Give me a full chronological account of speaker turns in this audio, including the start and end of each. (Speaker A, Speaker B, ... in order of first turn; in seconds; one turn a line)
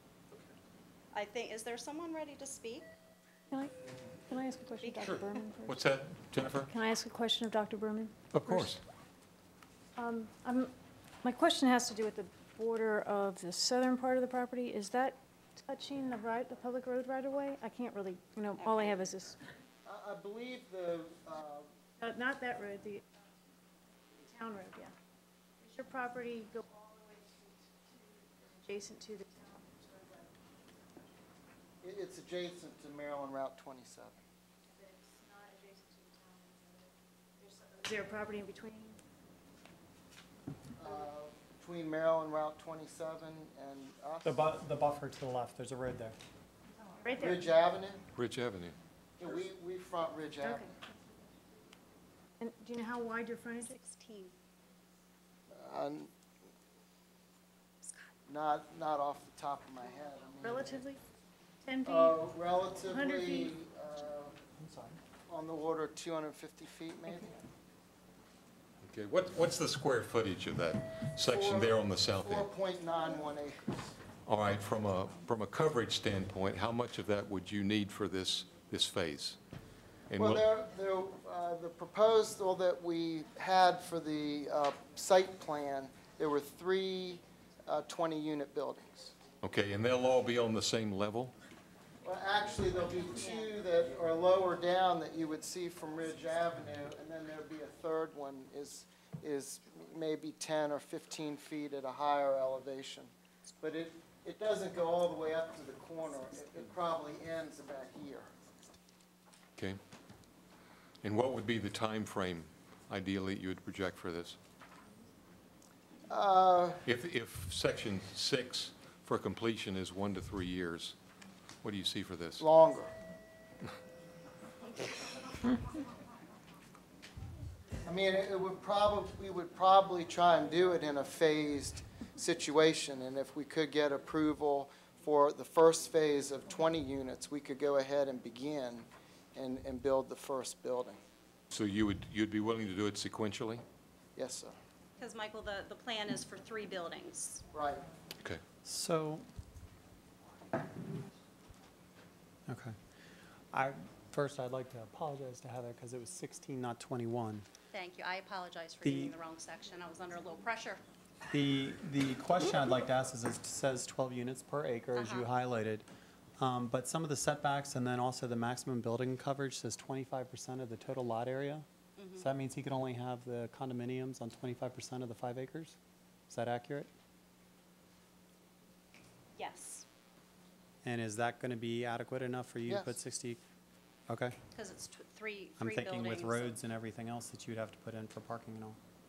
Speaker A: 1.1-2.9
Speaker B: 4.3-5.8
Speaker A: 4.8-5.2
Speaker C: 5.0-6.7
Speaker B: 6.7-8.7
Speaker C: 8.3-8.8
Speaker B: 9.9-10.7
Speaker B: 11.2-19.4
Speaker A: 18.6-19.3
Speaker D: 19.8-21.7
Speaker B: 22.0-23.1
Speaker B: 24.1-24.9
Speaker B: 25.6-31.2
Speaker D: 31.8-34.2
Speaker B: 34.7-39.0
Speaker D: 40.8-44.5
Speaker E: 44.2-46.2
Speaker B: 47.0-47.5
Speaker D: 47.1-48.0
Speaker C: 48.1-48.8
Speaker D: 49.2-50.8
Speaker B: 52.4-53.8
Speaker A: 53.7-54.3
Speaker D: 55.5-56.1
Speaker A: 57.8-58.1
Speaker D: 58.3-60.9
Speaker B: 60.4-61.0
Speaker B: 61.6-62.2
Speaker D: 61.8-64.4
Speaker B: 62.8-63.5
Speaker E: 64.6-65.0
Speaker D: 65.3-67.4
Speaker C: 68.8-72.5
Speaker D: 71.2-73.8
Speaker C: 74.2-79.4
Speaker C: 80.1-80.4
Speaker D: 80.2-89.1
Speaker C: 89.4-91.3
Speaker D: 92.0-108.3
Speaker A: 93.2-93.4
Speaker C: 111.0-114.4
Speaker D: 116.1-116.8
Speaker C: 116.8-120.9
Speaker C: 121.6-122.5
Speaker D: 122.4-122.9
Speaker D: 127.8-141.0
Speaker C: 141.5-143.6
Speaker D: 144.1-144.6
Speaker A: 145.0-147.4
Speaker D: 147.5-147.8
Speaker E: 148.6-149.2
Speaker E: 152.5-152.7
Speaker E: 153.5-157.4
Speaker A: 157.7-160.8
Speaker E: 158.8-159.2
Speaker E: 161.3-165.8
Speaker A: 164.9-165.3
Speaker E: 166.4-175.8
Speaker A: 172.0-172.3
Speaker E: 176.3-176.9
Speaker A: 179.3-179.8
Speaker E: 180.8-183.4
Speaker D: 182.7-183.0
Speaker E: 184.1-184.3
Speaker A: 184.5-186.6
Speaker E: 185.6-188.8